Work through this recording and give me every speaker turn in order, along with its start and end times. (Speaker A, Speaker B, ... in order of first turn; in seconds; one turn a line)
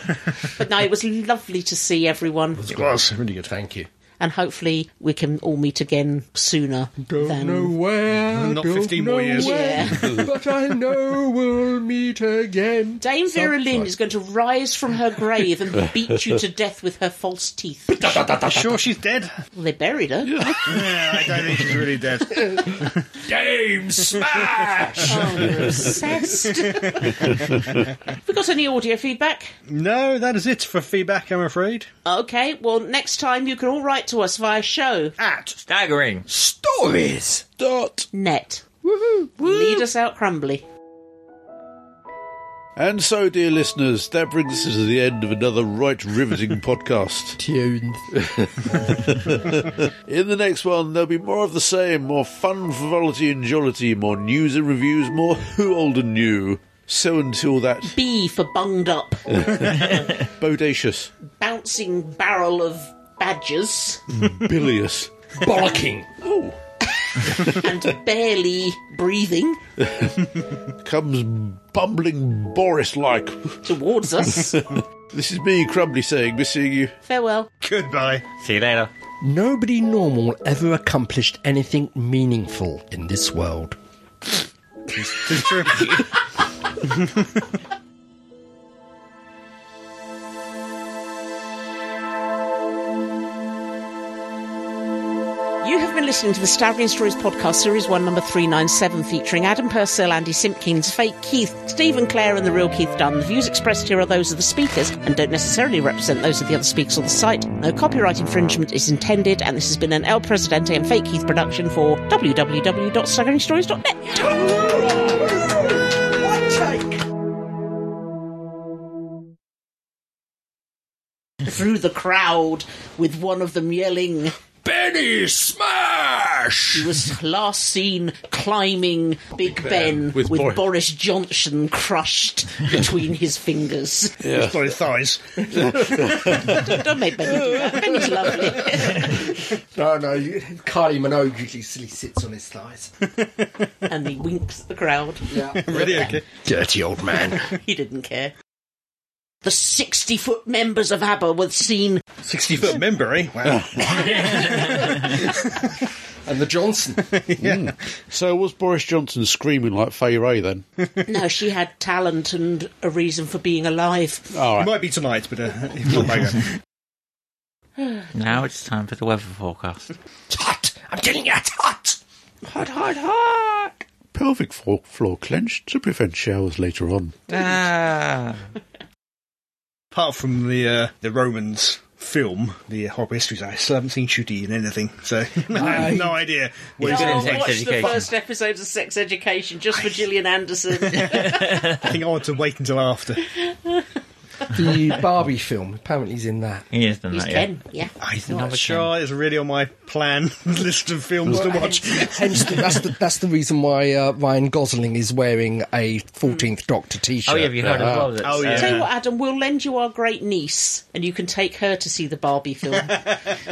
Speaker A: 0.4-2.7
Speaker B: 2.6-3.9
Speaker C: 2.6-3.5
Speaker A: 4.2-7.7
Speaker B: 7.0-13.9
Speaker C: 8.3-10.2
Speaker A: 9.3-10.1
Speaker D: 10.0-10.2
Speaker A: 13.0-17.9
Speaker B: 17.9-18.9
Speaker C: 18.4-19.3
Speaker A: 19.5-20.6
Speaker D: 20.2-20.8
Speaker C: 20.6-23.0
Speaker B: 22.3-26.7
Speaker C: 24.0-24.6
Speaker A: 25.1-27.4
Speaker C: 26.4-27.7
Speaker A: 28.1-29.5
Speaker C: 29.7-31.9
Speaker A: 32.0-35.1
Speaker C: 35.2-35.6
Speaker E: 35.7-36.2
Speaker B: 36.3-37.4
Speaker D: 37.6-38.1
Speaker A: 38.1-38.6
Speaker B: 38.8-39.8
Speaker A: 39.4-40.6
Speaker D: 42.8-47.4
Speaker B: 47.4-49.0
Speaker D: 48.4-58.0
Speaker A: 57.9-59.9
Speaker D: 59.3-61.1
Speaker A: 61.4-64.0
Speaker D: 64.1-65.1
Speaker B: 65.4-66.1
Speaker D: 66.2-66.6
Speaker A: 66.8-69.6
Speaker D: 69.8-70.3
Speaker D: 70.8-73.6
Speaker A: 73.6-74.6
Speaker D: 74.2-77.0
Speaker A: 77.0-77.5
Speaker C: 77.6-78.2
Speaker E: 78.4-78.9
Speaker B: 79.2-83.8
Speaker C: 84.9-86.0
Speaker C: 86.8-87.2
Speaker A: 95.6-114.2
Speaker B: 114.1-117.1
Speaker A: 121.4-124.3
Speaker B: 124.6-127.0
Speaker A: 126.7-134.2
Speaker D: 129.8-130.6
Speaker D: 134.2-134.6
Speaker C: 134.3-136.7
Speaker D: 135.8-136.6
Speaker A: 136.2-139.3
Speaker B: 138.4-142.9
Speaker C: 143.2-143.5
Speaker A: 143.9-146.2
Speaker B: 145.3-147.4
Speaker C: 145.5-146.2
Speaker A: 147.3-148.3
Speaker A: 149.4-152.0
Speaker C: 152.2-155.8
Speaker D: 153.4-153.8
Speaker E: 154.6-154.9
Speaker B: 156.2-157.0
Speaker C: 157.1-157.7
Speaker D: 157.4-160.6
Speaker A: 161.1-164.4
Speaker D: 164.3-164.7
Speaker C: 164.6-166.6
Speaker A: 167.8-168.1
Speaker E: 168.1-169.9
Speaker B: 170.3-173.7
Speaker D: 174.1-177.3
Speaker E: 177.3-178.4
Speaker C: 179.9-188.0
Speaker B: 185.5-186.2
Speaker E: 186.8-188.1
Speaker A: 186.8-191.7
Speaker C: 190.8-193.4
Speaker E: 191.0-191.8
Speaker A: 193.4-193.8
Speaker B: 194.5-196.7
Speaker E: 196.7-197.5
Speaker A: 197.1-197.9
Speaker C: 198.0-202.8
Speaker E: 198.2-198.9
Speaker B: 201.3-208.1
Speaker E: 207.2-208.9
Speaker D: 207.6-208.0
Speaker C: 208.2-208.9
Speaker A: 208.4-213.1